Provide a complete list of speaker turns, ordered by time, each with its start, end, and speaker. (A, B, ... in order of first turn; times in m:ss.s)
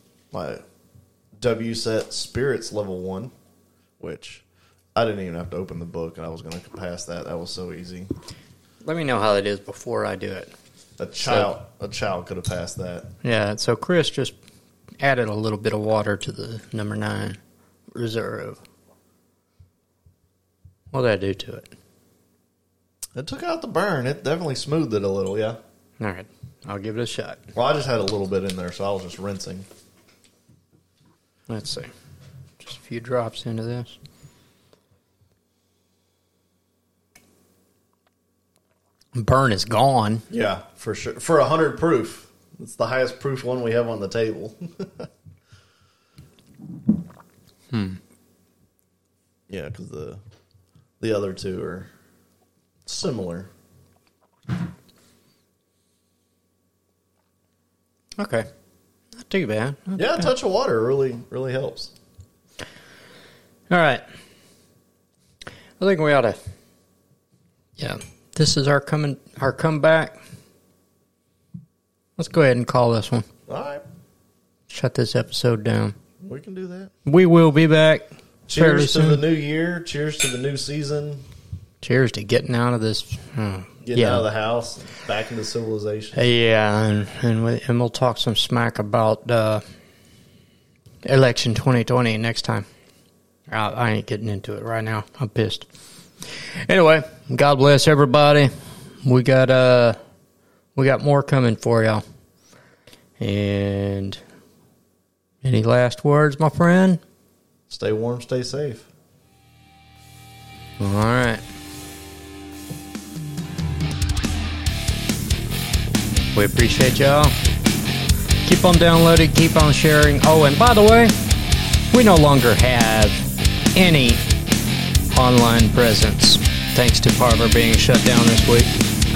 0:00.3-0:00.6 A
0:01.4-0:03.3 A
0:04.0-0:04.4 A
0:04.9-0:08.1 A
0:08.8-0:10.5 B
0:11.0-0:13.1 A
0:11.2-0:11.5 B
0:13.2-0:14.3 B
0:15.0-0:17.4 B
0:17.9-0:18.6 B
0:20.9-0:21.7 B
0:23.2-0:25.6 A
0:26.0-0:27.4 B
0:27.5-0:29.7 A
0:31.5-0:31.9 B
0:32.6-0:34.0 B
0:39.1-0:40.2 B
0:40.3-0:45.1 A
0:47.7-0:48.0 B
0:49.5-0:50.2 A
0:51.0-0:51.9 A
0:52.8-0:53.5 A
0:58.2-0:58.5 B
0:59.1-1:00.3 B
1:00.0-1:01.9 A
1:03.7-1:04.0 B
1:05.8-1:06.4 B
1:07.8-1:10.2 B
1:12.2-1:13.2 B
1:13.5-1:13.8 A
1:14.7-1:16.0 B
1:16.2-1:16.9 A
1:17.0-1:19.2 B
1:18.5-1:21.2 A
1:21.8-1:24.2 B
1:23.8-1:26.2 A
1:26.1-1:29.6 B
1:31.0-1:32.6 B
1:33.5-1:35.7 B
1:36.6-1:38.5 B
1:39.0-1:40.0 B
1:40.8-1:42.0 B
1:43.2-1:44.2 B
1:45.4-1:47.0 B
1:47.7-1:48.9 A
1:50.8-1:51.4 B
1:56.3-1:57.3 B
1:58.4-2:01.1 B
2:01.9-2:04.2 B
2:05.1-2:08.8 B